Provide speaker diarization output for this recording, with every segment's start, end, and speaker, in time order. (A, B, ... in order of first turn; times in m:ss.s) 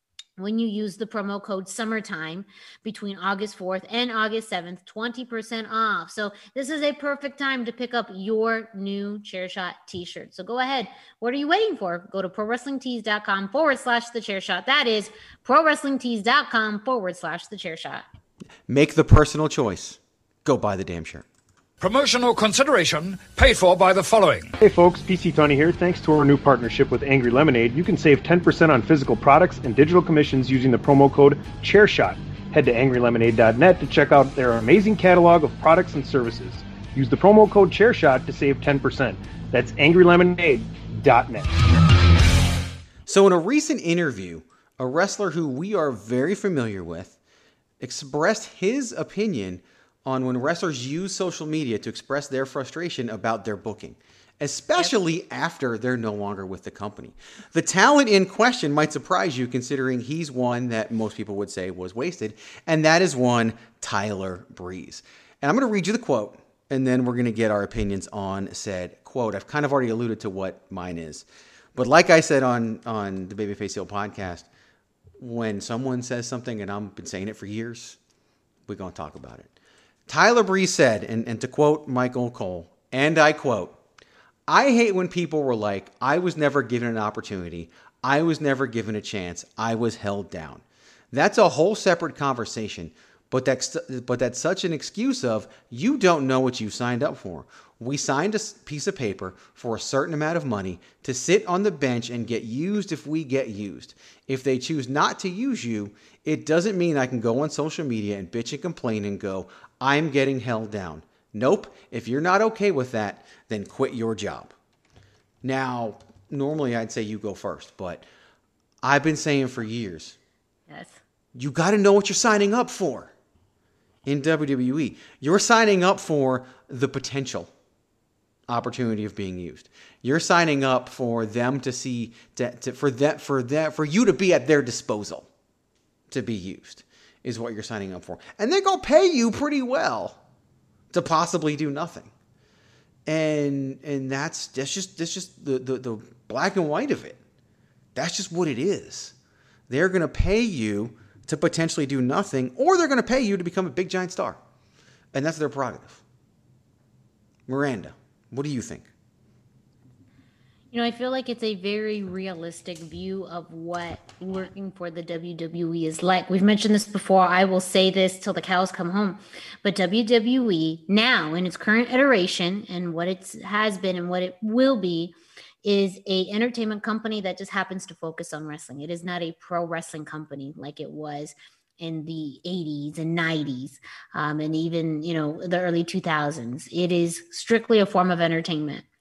0:00.4-0:18.0 A
0:18.7-0:21.2 B
0:21.8-0:24.6 C
0:24.6-0:41.5 D
0:43.1-0:47.2 B
0:47.8-1:14.5 B
1:15.2-1:18.0 B
1:18.7-1:19.5 B
1:20.1-1:23.8 B
1:24.5-1:54.6 B
1:55.4-1:58.1 B
1:58.8-2:00.2 B
2:00.7-2:01.0 A
2:01.4-2:03.1 B
2:04.1-2:07.5 B
2:08.5-2:15.3 B
2:16.1-2:20.2 B
2:20.9-2:22.1 B
2:23.1-2:27.2 B
2:28.0-2:29.2 B
2:29.7-2:34.4 B
2:35.1-2:36.0 B
2:37.5-2:38.9 B
2:40.7-3:08.8 A